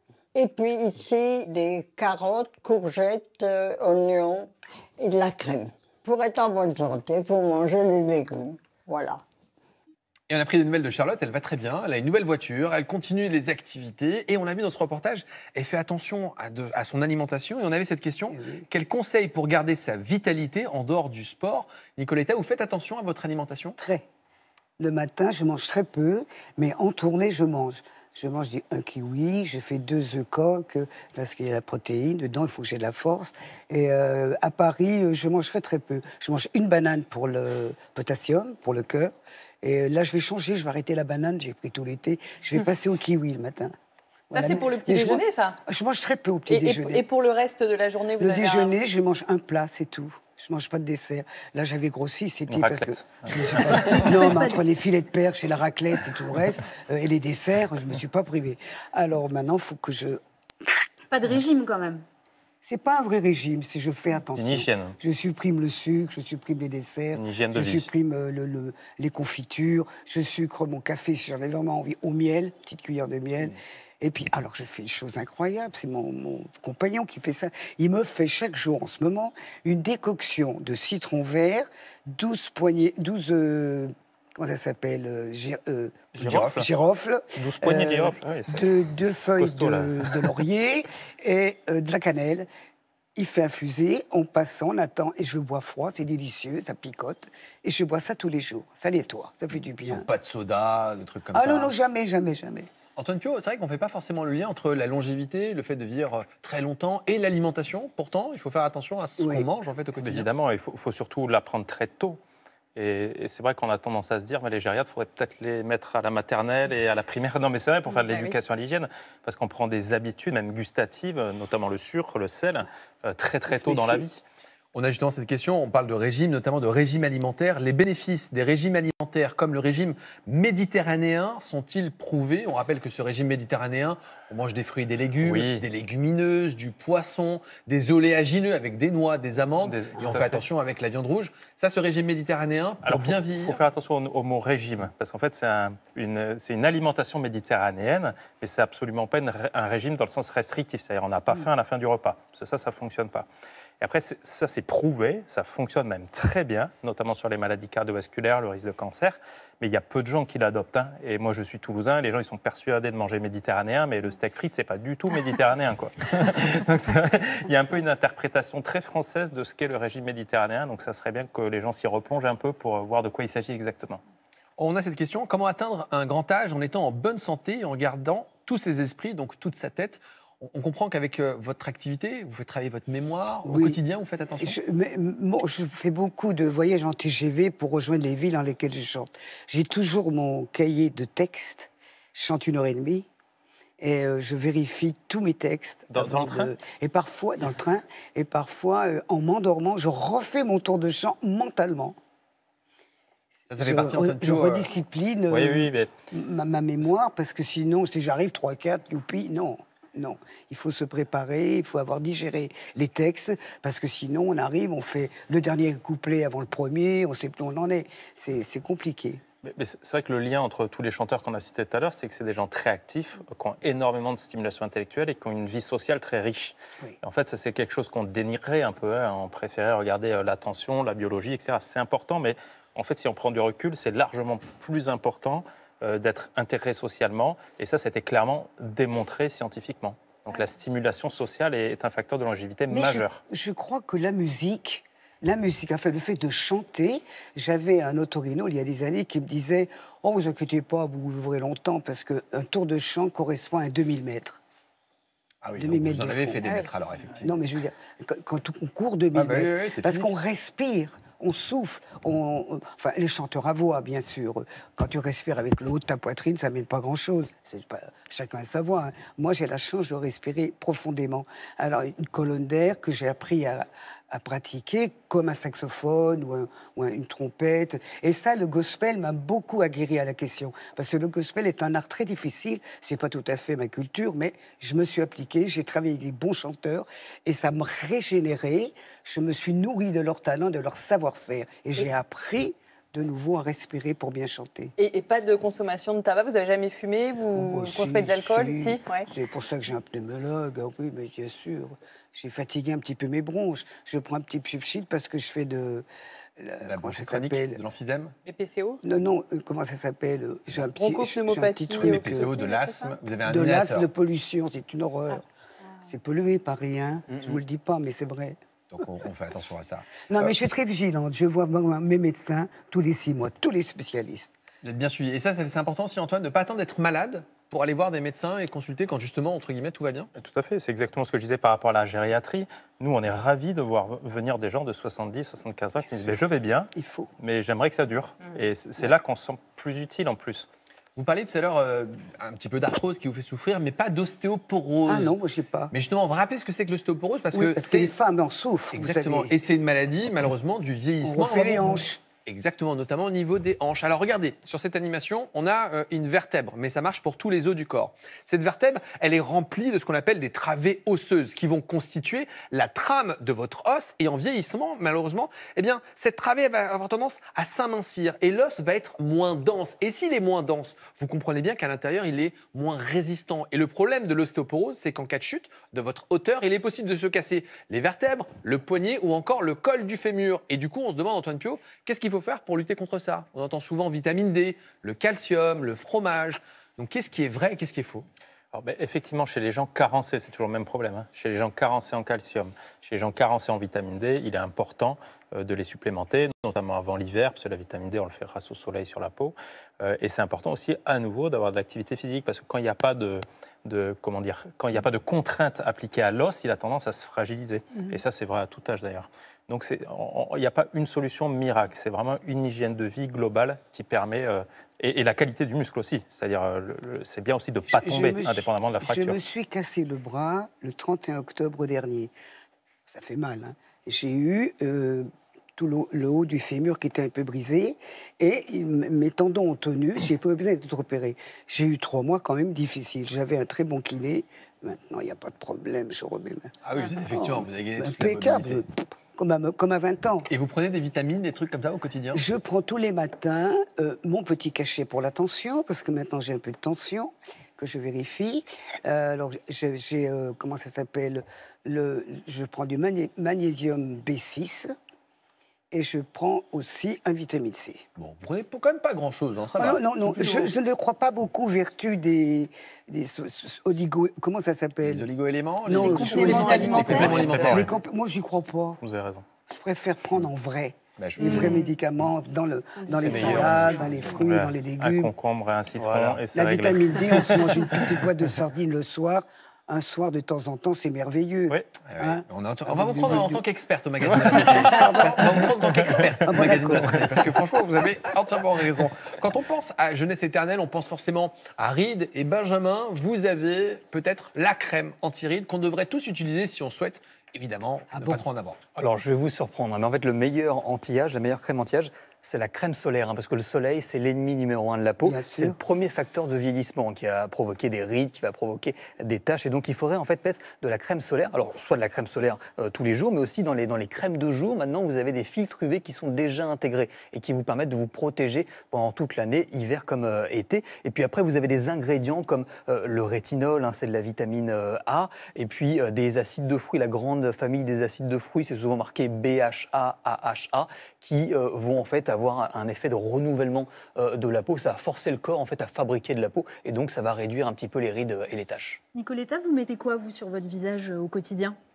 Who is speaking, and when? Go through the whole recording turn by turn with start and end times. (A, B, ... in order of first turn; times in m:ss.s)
0:00.3-0:09.2 A
0:10.3-0:23.8 B
0:18.3-0:18.6 C
0:23.8-0:24.0 C
0:24.8-0:43.7 C
0:44.3-0:45.6 D
0:44.3-0:47.0 C
0:46.5-0:48.8 D
0:48.2-1:00.7 C
0:52.5-0:54.3 E
0:53.8-0:54.6 F
1:01.1-1:02.0 F
1:02.6-1:32.5 C
1:04.3-1:05.0 E
1:07.1-1:07.9 E
1:26.2-1:26.6 B
1:26.2-1:26.7 E
1:27.4-1:28.8 E
1:29.4-1:30.4 E
1:33.2-1:40.1 C
1:39.9-1:41.7 B
1:41.3-1:42.7 C
1:43.0-1:50.3 B
1:49.2-1:49.5 C
1:50.0-1:52.2 E
1:52.7-2:04.2 E
1:58.0-1:58.3 D
2:03.5-2:04.0 C
2:04.7-2:23.6 B
2:15.2-2:15.6 E
2:19.6-2:20.4 E
2:22.8-2:33.3 E
2:33.8-2:54.0 E
2:54.6-3:04.6 B
3:03.4-3:03.8 C
3:04.4-3:13.1 C
3:13.8-3:22.0 C
3:15.9-3:16.5 E
3:23.5-3:24.7 B
3:23.6-3:39.2 C
3:25.3-3:25.9 E
3:39.4-4:03.2 E
4:02.7-4:14.4 C
4:15.4-4:17.3 B
4:15.6-4:16.6 C
4:17.2-4:54.7 C
4:19.1-4:20.1 B
4:54.8-4:59.1 D
4:57.3-5:05.8 C
5:06.4-5:07.6 C
5:06.6-5:08.1 B
5:08.2-5:08.8 D
5:08.8-5:12.3 C
5:10.7-5:13.0 D
5:11.8-5:13.9 B
5:13.2-5:15.2 C
5:15.9-5:18.4 C
5:18.7-5:20.4 B
5:20.1-5:24.3 C
5:24.6-5:30.1 B
5:30.2-5:40.5 E
5:36.7-5:37.1 C
5:41.0-5:45.1 B
5:44.9-5:45.7 C
5:45.7-5:47.9 B
5:47.3-5:49.3 C
5:48.7-5:51.7 B
5:51.0-5:52.0 C
5:52.2-6:28.0 B
6:28.5-6:59.2 E
6:57.7-7:02.1 C
7:02.9-7:16.5 C
7:16.6-7:18.6 B
7:17.1-7:20.3 C
7:20.3-7:22.2 B
7:22.1-7:34.7 C
7:35.7-7:37.8 C
7:38.0-7:40.5 B
7:39.6-7:45.1 C
7:44.8-7:47.7 B
7:45.6-7:48.8 C
7:45.8-7:47.1 F
7:46.7-7:47.7 E
7:48.8-7:49.2 E
7:49.5-7:55.1 C
7:51.0-7:51.6 B
7:51.2-7:51.7 F
7:52.8-7:53.5 F
7:52.9-7:54.2 B
7:53.1-7:53.6 E
7:53.2-7:53.6 G
7:54.2-7:57.4 E
7:55.8-7:56.2 B
7:56.3-8:03.4 C
8:01.9-8:18.6 B
8:04.0-8:07.6 C
8:04.0-8:05.0 E
8:05.9-8:06.6 E
8:17.9-8:18.2 C
8:18.8-8:58.8 G
8:25.0-8:25.6 C
8:58.9-9:01.6 F